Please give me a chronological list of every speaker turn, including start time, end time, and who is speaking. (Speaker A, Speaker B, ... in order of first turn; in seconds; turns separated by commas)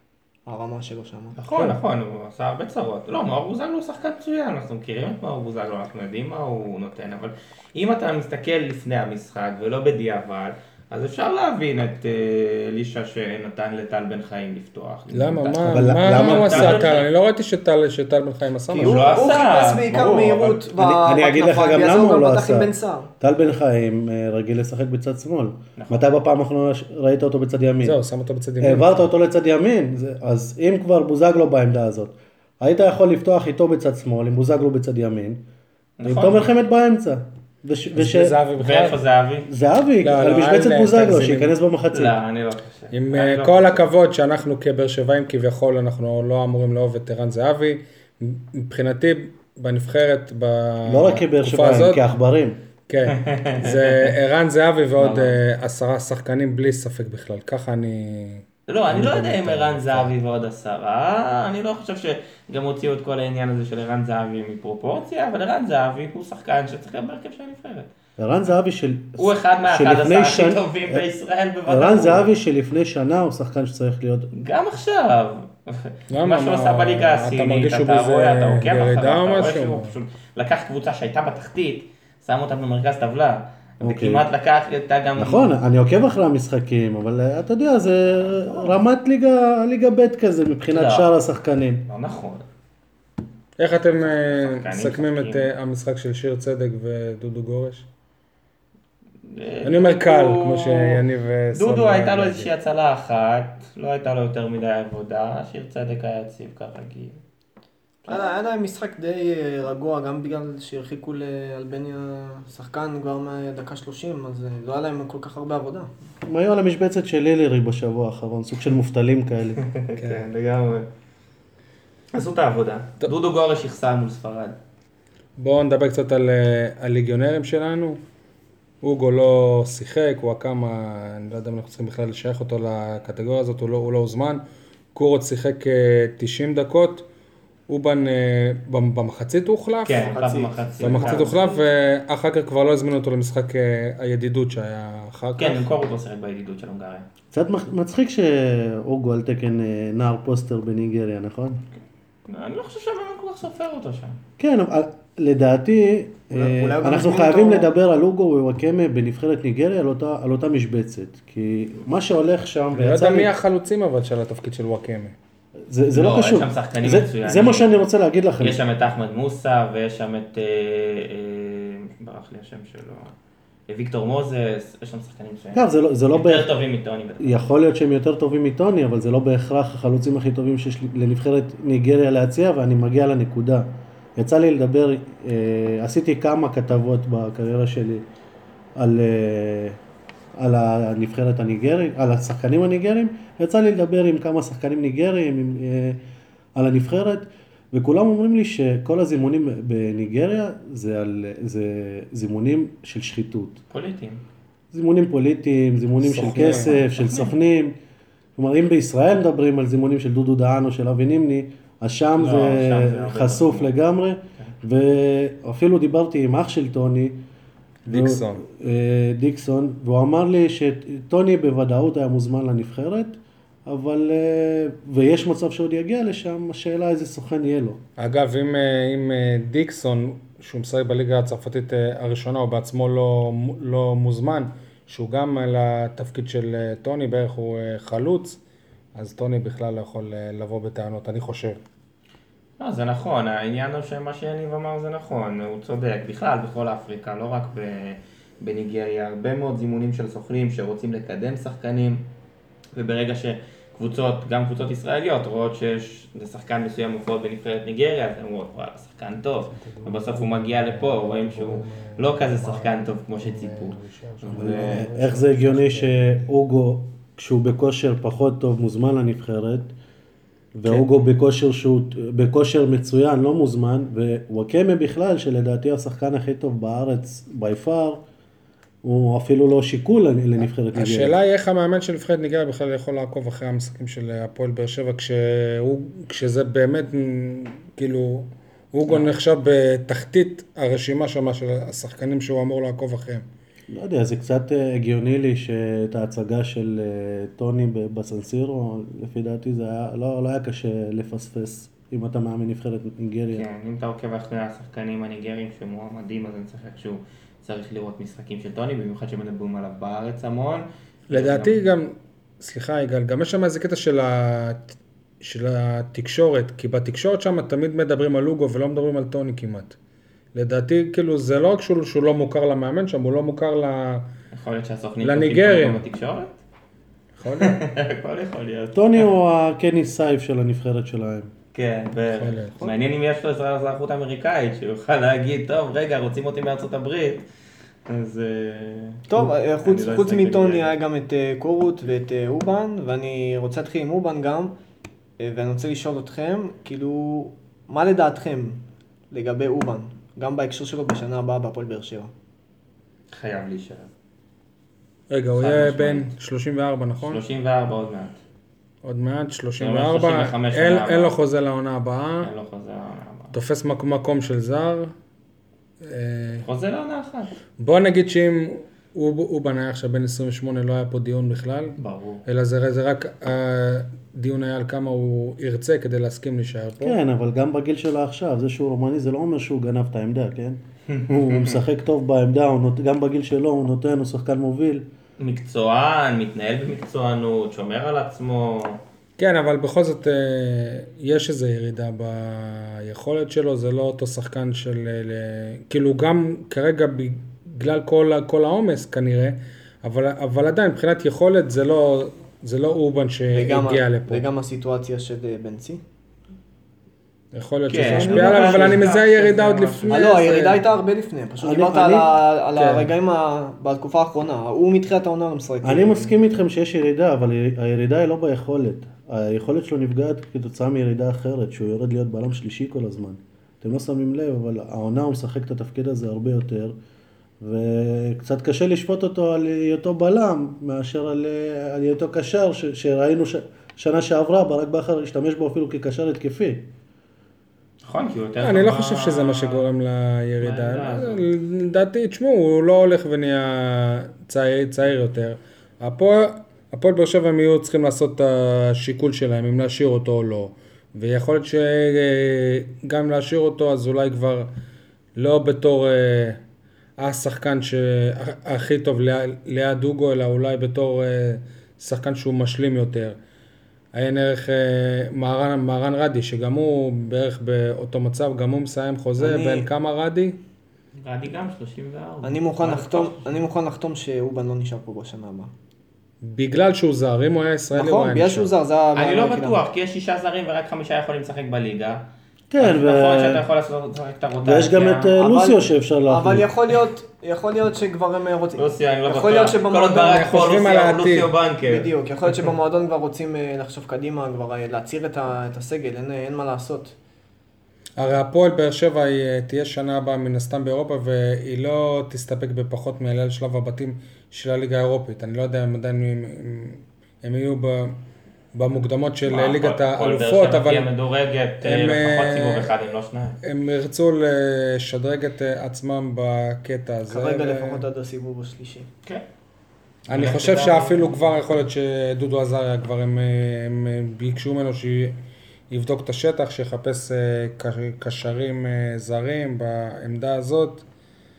Speaker A: 0.5-1.4, Speaker B: 1.4-17.1, Speaker C: 15.1-19.1, Speaker D: 15.6-16.9, Speaker A: 18.7-23.1, Speaker B: 18.7-20.7, Speaker D: 20.8-28.0, Speaker B: 25.8-26.1, Speaker C: 27.8-29.1, Speaker D: 28.6-35.5, Speaker B: 36.0-36.5, Speaker D: 36.0-38.3, Speaker C: 37.9-39.0, Speaker B: 38.6-39.5, Speaker D: 39.5-42.2, Speaker C: 40.0-41.5, Speaker B: 41.9-43.9, Speaker C: 42.9-52.1, Speaker D: 50.9-52.6, Speaker C: 52.9-60.1, Speaker B: 53.1-54.2, Speaker B: 55.0-55.4, Speaker B: 58.7-67.9, Speaker D: 68.2-71.0, Speaker B: 69.2-72.3, Speaker D: 71.7-74.3, Speaker B: 74.3-85.5, Speaker C: 76.1-79.9, Speaker D: 83.8-84.2, Speaker D: 85.2-91.9, Speaker B: 88.2-88.8, Speaker B: 90.7-91.1, Speaker B: 91.9-92.5, Speaker C: 93.6-97.9, Speaker B: 94.0-95.5, Speaker B: 99.2-107.2, Speaker C: 99.7-102.5, Speaker A: 108.1-115.9, Speaker D: 116.2-119.6, Speaker B: 119.6-120.9, Speaker C: 120.0-120.3, Speaker B: 122.1-124.6, Speaker C: 125.4-128.0, Speaker C: 128.8-134.4, Speaker C: 134.9-137.1, Speaker C: 137.7-140.2, Speaker B: 139.8-141.5, Speaker A: 140.1-141.6, Speaker C: 140.8-145.7, Speaker B: 145.4-147.1, Speaker D: 147.3-151.6, Speaker B: 151.8-154.2, Speaker D: 154.4-163.3, Speaker A: 156.3-157.7, Speaker C: 162.7-165.2, Speaker D: 165.7-168.6, Speaker B: 165.9-167.7, Speaker B: 168.4-173.1, Speaker B: 173.7-177.4, Speaker D: 175.5-176.5, Speaker D: 177.2-188.1, Speaker D: 188.8-189.8, Speaker D: 190.4-196.0, Speaker D: 196.6-203.6, Speaker B: 203.7-204.2, Speaker D: 204.7-207.8, Speaker C: 206.0-206.8, Speaker B: 206.9-207.3, Speaker D: 208.4-217.2, Speaker B: 212.2-213.7, Speaker D: 217.9-227.8, Speaker C: 217.9-218.4, Speaker C: 228.0-238.4, Speaker C: 238.9-241.6, Speaker B: 242.6-252.1, Speaker B: 252.7-264.9, Speaker C: 259.5-266.3, Speaker D: 264.3-269.7, Speaker D: 270.5-278.0, Speaker D: 278.8-281.2, Speaker C: 280.7-293.2, Speaker B: 288.9-289.1, Speaker D: 293.7-303.4, Speaker B: 303.3-311.6, Speaker C: 311.1-319.8, Speaker C: 320.3-324.1, Speaker B: 324.3-326.4, Speaker C: 325.0-325.8, Speaker C: 327.2-327.6, Speaker B: 327.4-329.1, Speaker D: 328.7-331.3, Speaker B: 331.5-337.3, Speaker C: 332.1-332.7, Speaker B: 337.9-339.1, Speaker A: 339.1-344.6, Speaker B: 339.6-340.7, Speaker A: 345.2-352.1, Speaker B: 353.1-353.9, Speaker C: 355.1-357.2, Speaker B: 355.4-356.1, Speaker B: 357.0-358.2, Speaker C: 358.8-362.3, Speaker B: 359.6-361.2, Speaker B: 362.2-363.4, Speaker C: 363.3-364.9, Speaker C: 365.8-366.5, Speaker B: 366.4-367.3, Speaker C: 367.6-377.0, Speaker B: 371.8-372.2, Speaker D: 376.8-384.9, Speaker B: 380.9-381.6, Speaker B: 385.2-388.8, Speaker C: 389.2-404.3, Speaker A: 403.3-405.8, Speaker C: 407.3-410.6, Speaker B: 407.7-409.9, Speaker D: 407.9-408.8, Speaker A: 409.9-416.1, Speaker D: 411.4-412.2, Speaker C: 412.6-412.9, Speaker D: 415.6-426.7, Speaker D: 427.4-436.7, Speaker B: 437.9-439.7, Speaker C: 438.4-454.5, Speaker B: 440.4-441.3, Speaker C: 455.2-456.4, Speaker C: 457.0-463.2, Speaker C: 463.9-470.4, Speaker A: 469.2-469.7, Speaker B: 471.0-473.4, Speaker A: 472.2-475.5, Speaker C: 476.2-478.5, Speaker A: 477.7-479.6, Speaker B: 478.9-482.1, Speaker D: 482.5-483.4, Speaker B: 482.6-485.1, Speaker D: 484.4-486.5, Speaker A: 485.2-490.4, Speaker B: 488.6-491.9, Speaker C: 490.0-491.3, Speaker A: 491.6-496.9, Speaker C: 498.0-507.9, Speaker C: 508.5-510.9, Speaker B: 509.3-513.4, Speaker C: 511.6-512.7, Speaker C: 513.4-517.8, Speaker A: 517.1-518.9, Speaker B: 520.1-521.4, Speaker C: 520.1-525.1, Speaker C: 525.7-530.9